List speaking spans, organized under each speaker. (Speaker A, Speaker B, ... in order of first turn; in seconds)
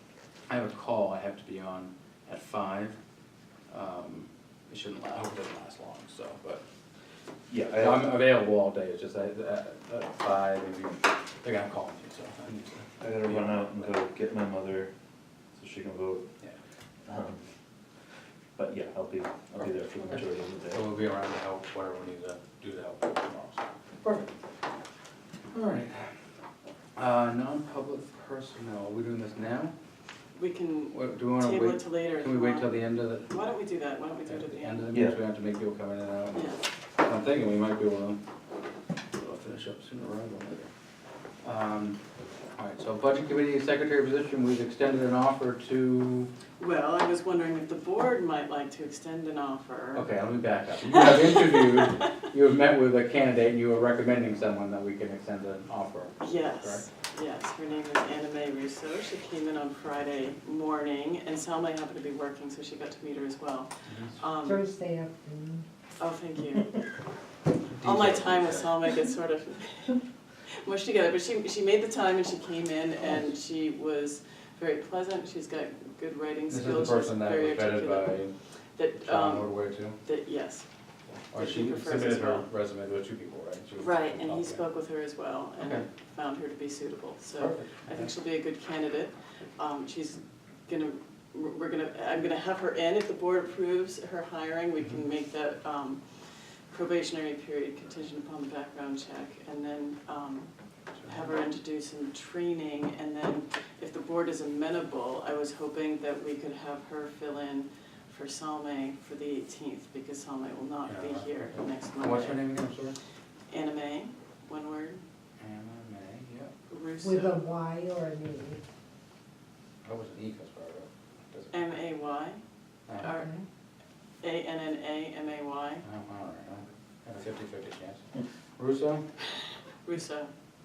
Speaker A: 0.5-3.0, 3.7-6.6, 7.8-13.6, 19.6-24.3, 25.5-26.2, 27.0-29.7, 30.9-33.4, 34.3-38.2, 39.1-40.7, 41.4-42.0, 42.5-46.3, 49.9-56.9, 63.9-64.2, 67.7-68.7, 76.5-78.3, 79.0-80.0, 81.3-84.6, 85.6-85.9, 87.4-88.1, 110.9-113.0, 115.4-116.5, 119.8-121.6, 122.9-123.1, 125.8-129.1
Speaker B: 7.5-8.1, 13.0-14.9, 15.6-16.3, 17.1-17.4, 18.6-20.9, 34.9-35.2
Speaker C: 30.4-35.0, 36.3-36.6, 46.6-50.1, 50.9-52.1, 56.2-64.6, 66.0-66.8, 67.8-80.7, 81.3-82.5, 83.8-112.6, 113.5-115.0, 116.7-117.4, 121.5-123.3, 124.2-125.8, 129.8-130.3
Speaker D: 64.4-65.7, 117.0-118.6, 123.1-123.5